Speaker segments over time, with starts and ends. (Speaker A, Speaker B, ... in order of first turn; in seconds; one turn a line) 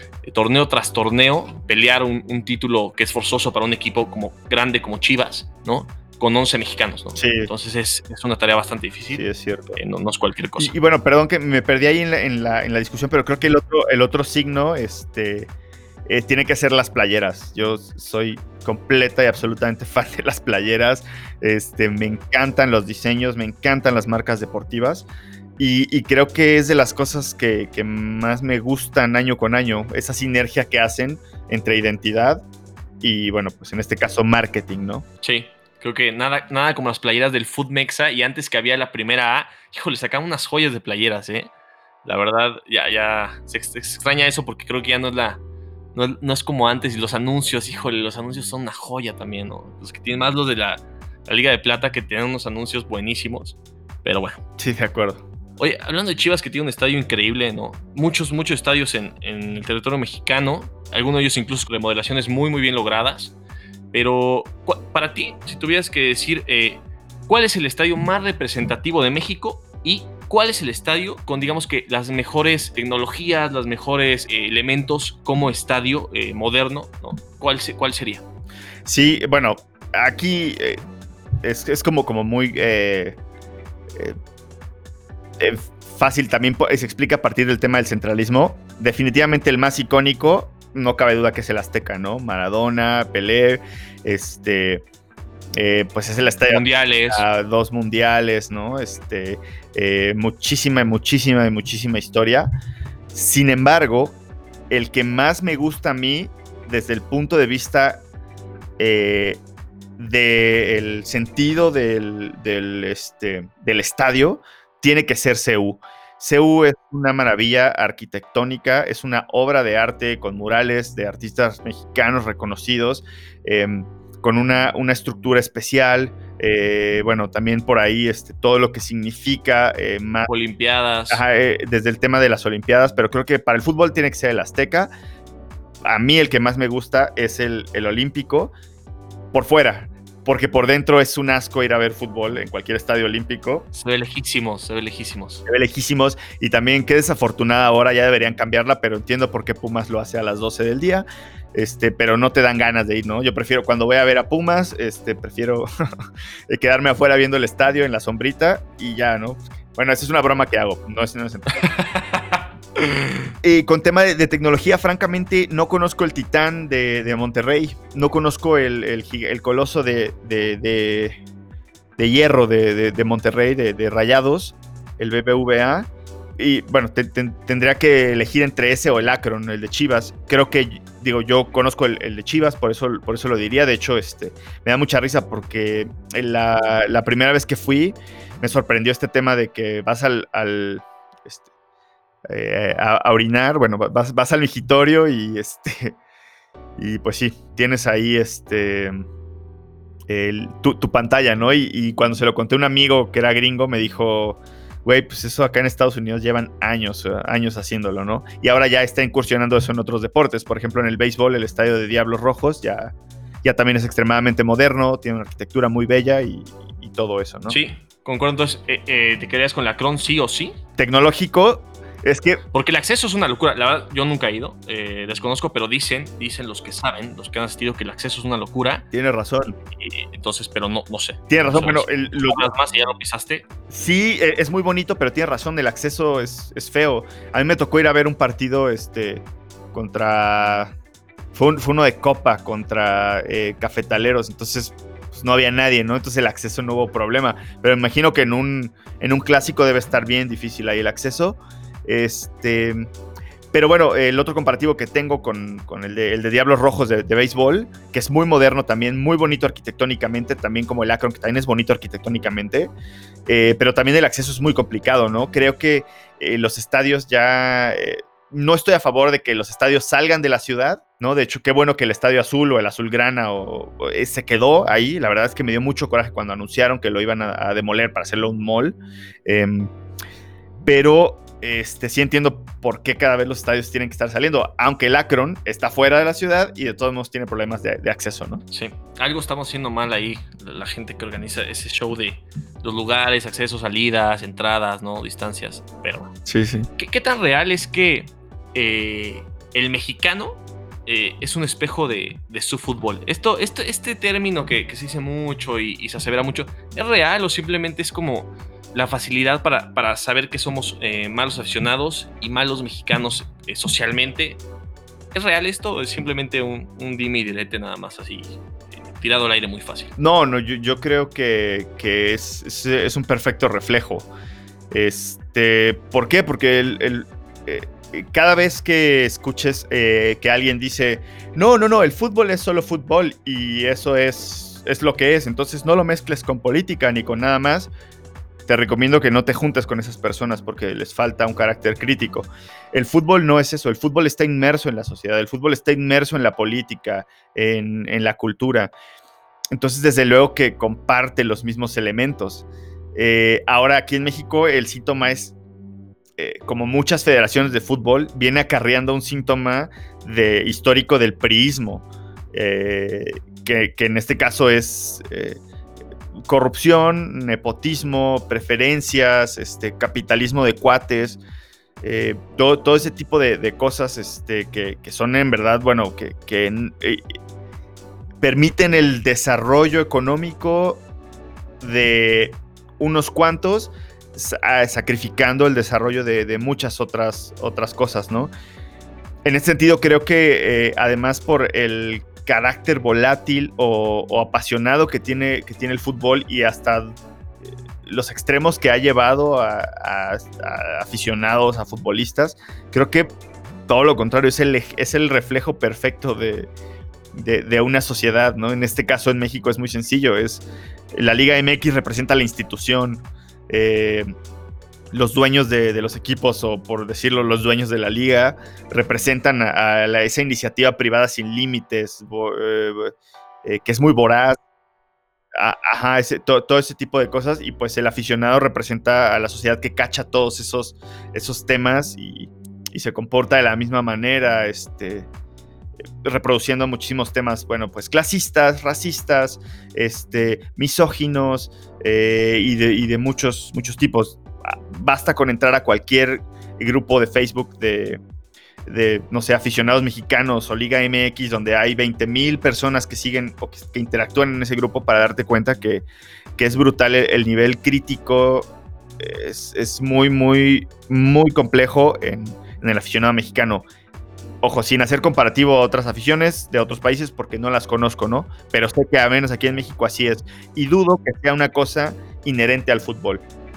Speaker A: 0.2-9.2
Speaker B: 7.2-7.5
Speaker B: 9.1-9.8
Speaker A: 9.8-10.7
Speaker B: 10.6-15.5
Speaker B: 16.1-25.1
Speaker B: 25.6-32.4
Speaker B: 33.0-35.0
Speaker A: 35.2-41.5
Speaker A: 42.0-45.4
Speaker A: 45.9-54.4
Speaker B: 54.6-55.2
Speaker A: 55.6-63.3
Speaker A: 63.9-78.2
Speaker B: 78.8-80.8
Speaker B: 81.4-83.2
Speaker B: 85.4-94.8
Speaker B: 95.6-102.5
Speaker A: 96.5-97.2
Speaker B: 103.1-104.2
Speaker B: 104.7-108.0
Speaker B: 108.8-109.4
Speaker B: 110.0-130.3
Speaker A: 130.3-131.2
Speaker B: 131.1-134.9
Speaker B: 135.8-138.5
Speaker B: 139.3-143.7
Speaker A: 143.7-145.4
Speaker B: 145.4-155.7
Speaker B: 156.5-161.6
Speaker A: 161.6-163.1
Speaker B: 163.4-171.2
Speaker B: 172.0-191.4
Speaker B: 192.3-195.9
Speaker B: 196.8-199.0
Speaker B: 200.1-217.6
Speaker A: 217.5-220.6
Speaker B: 220.8-222.4
Speaker A: 222.5-228.9
Speaker B: 228.9-229.6
Speaker A: 229.8-233.4
Speaker B: 231.3-232.4
Speaker B: 233.7-240.7
Speaker B: 241.3-252.9
Speaker B: 253.5-262.7
Speaker B: 263.3-279.7
Speaker B: 280.6-288.4
Speaker A: 288.5-296.1
Speaker B: 296.2-296.7
Speaker A: 296.8-314.4
Speaker A: 315.1-319.9
Speaker B: 320.0-324.1
Speaker B: 324.7-337.7
Speaker B: 338.5-348.7
Speaker B: 349.5-355.3
Speaker B: 356.2-365.4
Speaker B: 366.3-371.2
Speaker B: 371.8-377.0
Speaker B: 378.2-380.8
Speaker B: 381.6-388.3
Speaker B: 389.2-396.9
Speaker B: 397.8-403.1
Speaker B: 403.7-406.5
Speaker B: 407.1-414.1
Speaker B: 414.9-422.9
Speaker B: 423.4-424.4
Speaker B: 425.3-435.1
Speaker B: 436.0-448.0
Speaker B: 448.6-455.8
Speaker B: 456.4-463.6
Speaker B: 464.4-473.2